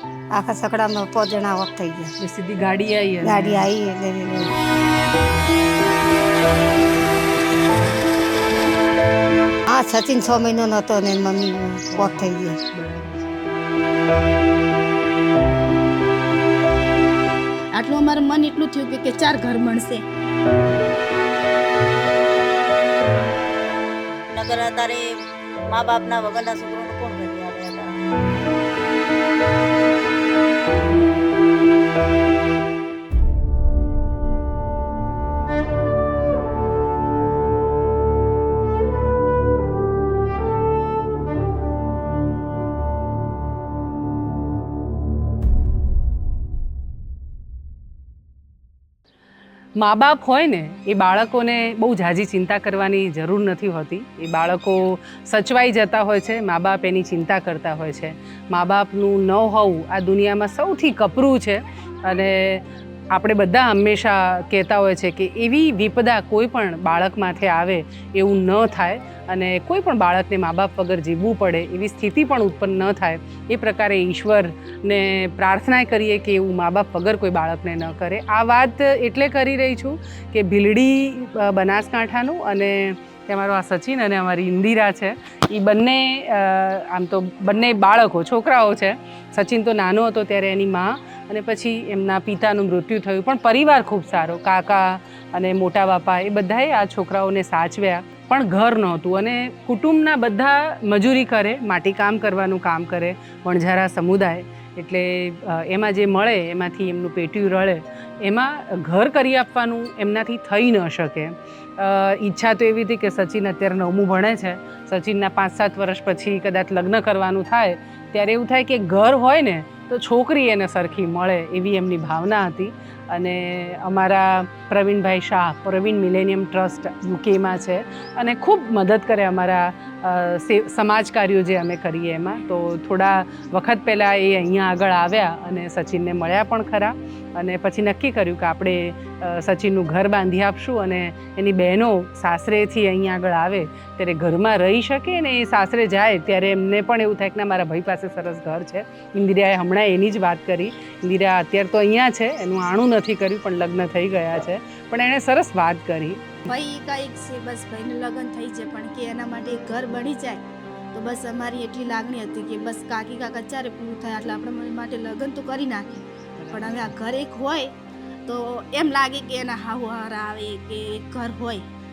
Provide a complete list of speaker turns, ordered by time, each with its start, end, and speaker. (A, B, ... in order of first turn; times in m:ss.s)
0:00.3-0:02.1 A
0:02.2-0:03.7 B
0:03.2-0:04.5 A
0:09.7-0:12.6 A
0:11.9-0:13.4 B
0:17.7-0:20.0 C
0:24.3-0:25.0 D
0:25.7-0:28.0 D
0:49.8-2:36.5 B
2:36.5-2:47.7 C
2:46.4-2:46.9 B
2:48.2-2:51.6 C